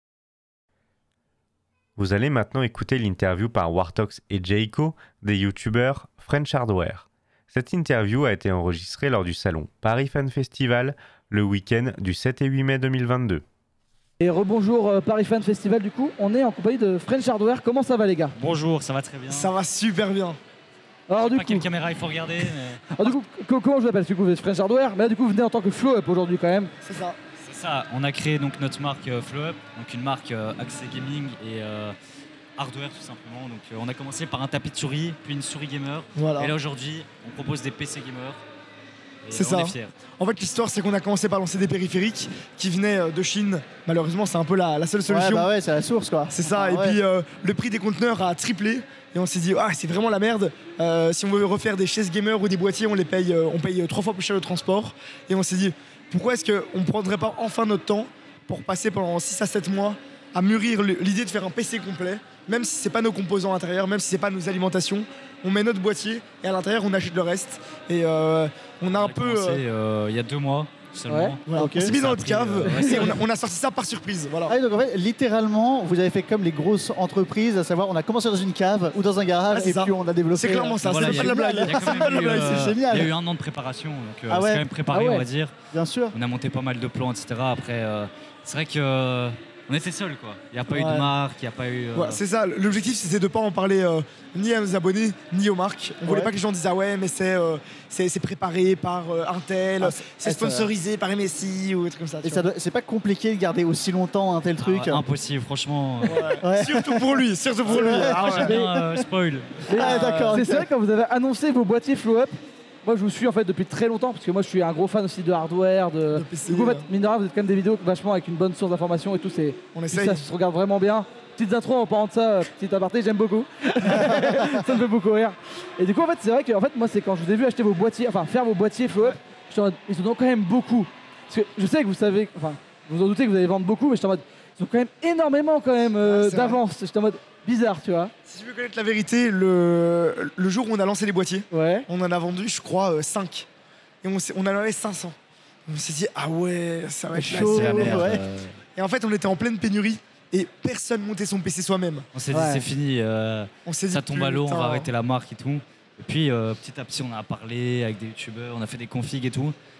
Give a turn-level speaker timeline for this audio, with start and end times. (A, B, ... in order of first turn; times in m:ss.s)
0:02.0-0:13.4 A
0:14.2-0:18.4 B
0:18.4-0:19.5 C
0:19.3-0:20.4 D
0:21.1-0:21.7 B
0:21.2-0:22.9 C
0:22.9-0:26.7 B
0:26.8-0:27.2 D
0:27.4-0:32.0 C
0:32.6-0:38.4 C
0:36.1-0:36.5 D
0:39.2-0:39.9 C
0:39.3-0:45.5 D
0:45.0-0:47.0 E
0:46.3-1:09.6 D
1:09.0-1:13.2 C
1:11.1-1:11.4 B
1:11.5-1:14.6 D
1:11.5-1:11.9 E
1:12.7-1:13.1 E
1:14.5-1:23.1 E
1:19.5-1:22.8 D
1:20.8-1:25.5 C
1:24.3-1:24.7 E
1:24.9-1:25.2 B
1:25.7-1:26.2 E
1:26.1-1:32.2 C
1:30.7-1:31.1 E
1:31.9-1:42.5 D
1:36.0-1:36.3 E
1:39.8-1:40.7 E
1:42.2-1:45.0 E
1:44.6-1:46.3 C
1:46.1-1:48.6 D
1:46.1-1:48.6 E
1:48.0-1:50.1 C
1:48.4-1:48.7 B
1:49.7-2:18.1 B
1:49.7-1:50.7 E
1:56.1-1:56.8 D
1:59.7-2:00.2 D
2:16.0-2:16.6 D
2:18.3-2:23.4 D
2:21.5-2:21.9 B
2:24.0-2:25.1 D
2:25.7-2:28.2 D
2:27.1-2:28.2 E
2:27.3-2:28.6 C
2:28.8-2:32.1 D
2:32.1-2:39.6 C
2:32.3-2:32.6 B
2:33.6-2:34.9 D